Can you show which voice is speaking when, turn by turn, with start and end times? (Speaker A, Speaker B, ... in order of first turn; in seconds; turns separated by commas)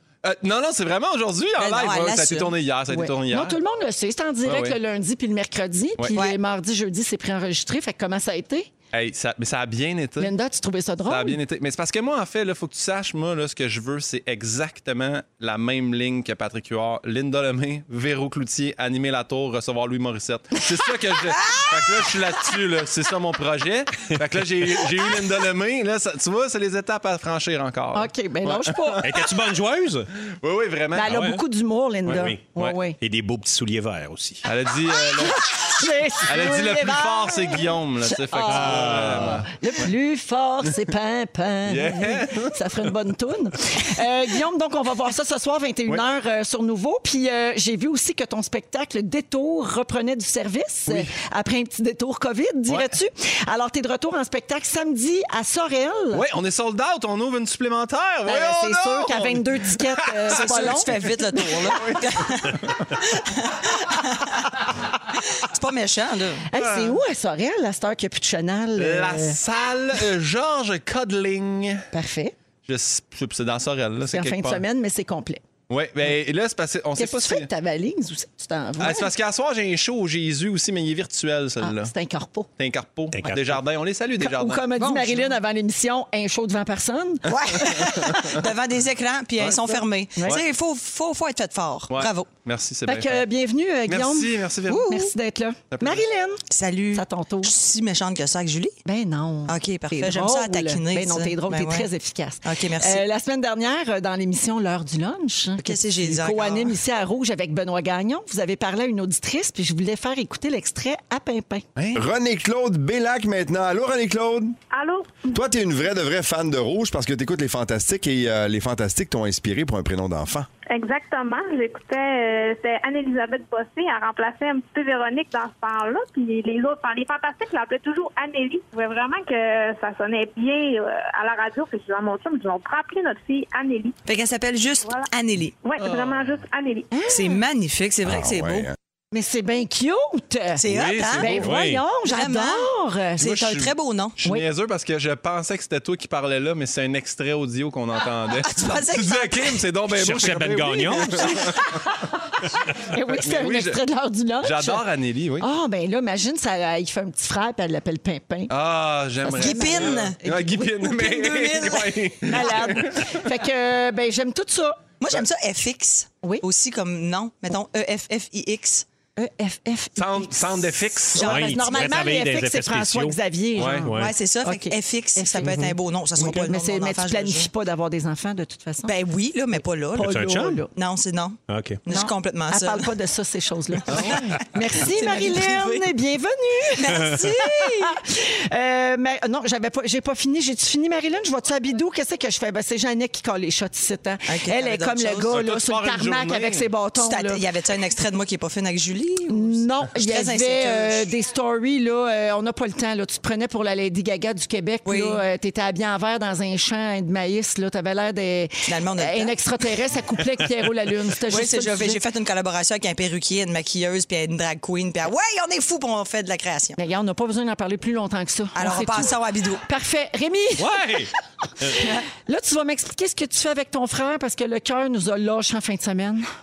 Speaker A: 0.2-3.6, Speaker B: 1.6-2.5, Speaker C: 2.9-8.7, Speaker A: 4.4-4.8, Speaker B: 6.1-6.4, Speaker A: 8.9-10.3, Speaker C: 10.2-11.4, Speaker A: 11.1-29.3, Speaker C: 27.9-29.1, Speaker D: 29.0-30.1, Speaker A: 30.3-31.1, Speaker C: 30.9-33.0, Speaker D: 31.0-31.4, Speaker A: 32.1-32.8, Speaker D: 32.1-32.4, Speaker D: 33.0-34.4, Speaker A: 34.4-35.5, Speaker C: 35.2-37.6, Speaker A: 36.3-39.8, Speaker C: 38.2-56.2, Speaker D: 38.5-39.4, Speaker A: 41.7-42.5, Speaker A: 56.1-62.7, Speaker C: 58.2-60.9, Speaker B: 60.3-66.4, Speaker C: 66.5-69.4, Speaker A: 66.5-67.0, Speaker A: 68.8-71.9, Speaker C: 71.9-72.3, Speaker A: 72.6-74.6, Speaker C: 74.1-75.4, Speaker A: 75.7-77.5, Speaker C: 77.0-79.1, Speaker A: 78.8-81.9, Speaker C: 81.6-82.5, Speaker A: 82.6-84.6, Speaker D: 83.1-83.6, Speaker C: 84.2-87.6, Speaker B: 84.8-85.3, Speaker B: 87.3-92.3, Speaker A: 88.1-88.4, Speaker A: 89.4-90.4, Speaker C: 90.2-90.4, Speaker A: 91.9-93.2, Speaker C: 92.8-97.5, Speaker A: 93.9-95.1, Speaker A: 95.7-96.0, Speaker B: 96.5-98.8, Speaker C: 98.8-111.6, Speaker B: 99.5-101.9, Speaker B: 102.4-103.0, Speaker B: 105.6-106.8, Speaker E: 111.9-114.5, Speaker F: 114.7-115.4, Speaker E: 115.3-120.5, Speaker F: 120.7-134.0, Speaker B: 134.1-135.6, Speaker F: 135.6-136.9, Speaker A: 135.8-136.4, Speaker C: 136.9-137.4, Speaker B: 137.1-138.7, Speaker E: 138.0-138.7, Speaker C: 139.1-140.6, Speaker B: 140.6-141.3, Speaker A: 140.7-141.5, Speaker C: 141.2-143.7, Speaker D: 141.4-141.8, Speaker B: 142.1-142.7, Speaker A: 143.2-151.8, Speaker B: 143.3-144.1, Speaker B: 148.4-149.6, Speaker D: 149.9-151.4, Speaker C: 151.5-152.1, Speaker C: 152.9-154.8, Speaker A: 153.1-153.8, Speaker A: 154.4-155.5, Speaker C: 155.4-158.5, Speaker A: 158.5-163.2, Speaker C: 159.2-160.1, Speaker B: 159.3-162.6, Speaker C: 162.3-164.8, Speaker B: 165.0-168.8, Speaker C: 169.2-178.9, Speaker A: 169.9-171.3, Speaker B: 171.1-172.1, Speaker D: 171.2-174.1, Speaker A: 173.6-173.9, Speaker B: 173.9-177.5, Speaker B: 178.8-182.9, Speaker D: 179.9-180.6, Speaker C: 179.9-180.7, Speaker D: 181.5-181.8, Speaker C: 181.9-197.4, Speaker B: 183.9-185.9, Speaker B: 186.8-188.0, Speaker B: 194.3-195.3, Speaker A: 195.3-196.7, Speaker B: 197.0-201.0, Speaker C: 199.3-212.0, Speaker B: 204.8-205.2, Speaker B: 208.7-209.4, Speaker B: 211.2-216.8, Speaker C: 216.8-220.8, Speaker B: 218.5-219.6, Speaker D: 220.6-221.8, Speaker C: 221.7-226.3